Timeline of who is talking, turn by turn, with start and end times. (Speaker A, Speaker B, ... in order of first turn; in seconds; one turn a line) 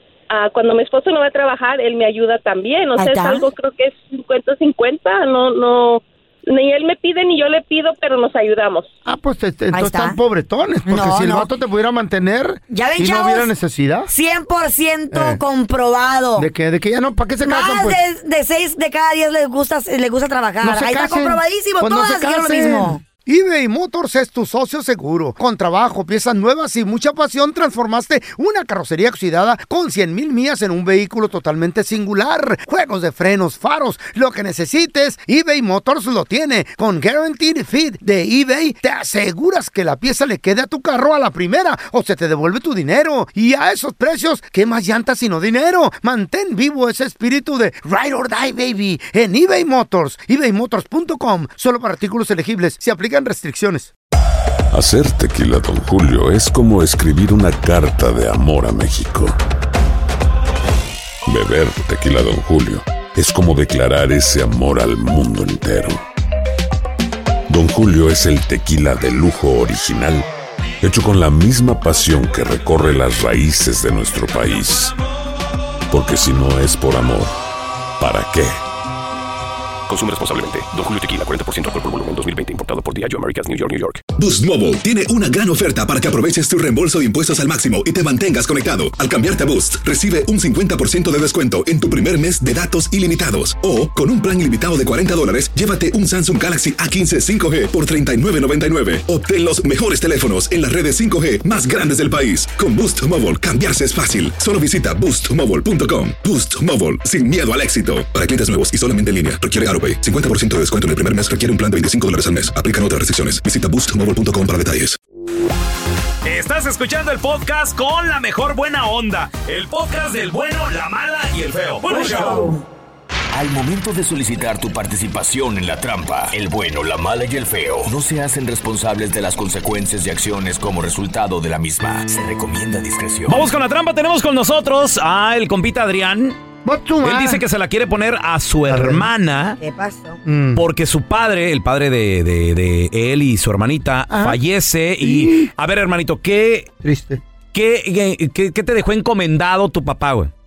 Speaker A: 0.3-8.9
Speaker B: 3.0-3.5
Speaker C: 9.1-14.1
Speaker B: 9.7-10.2
Speaker B: 10.9-11.5
Speaker B: 12.7-13.5
Speaker B: 14.1-16.5
Speaker C: 15.1-15.4
Speaker C: 16.4-18.0
Speaker B: 17.4-23.0
Speaker C: 20.6-53.9
Speaker D: 54.7-59.4
Speaker D: 61.3-66.0
Speaker D: 67.5-70.3
Speaker D: 70.8-75.0
Speaker D: 75.9-77.3
Speaker D: 78.0-78.6
Speaker E: 79.9-84.0
Speaker F: 84.2-115.0
Speaker G: 116.2-122.6
Speaker B: 121.9-122.6
Speaker H: 123.3-133.5
Speaker G: 133.3-136.4
Speaker C: 136.6-137.4
Speaker G: 137.0-139.6
Speaker C: 138.7-139.1
Speaker B: 139.6-140.2
Speaker C: 140.2-140.6
Speaker G: 140.6-146.7
Speaker C: 144.1-144.4
Speaker C: 145.0-145.5
Speaker C: 146.8-147.2
Speaker G: 147.5-150.3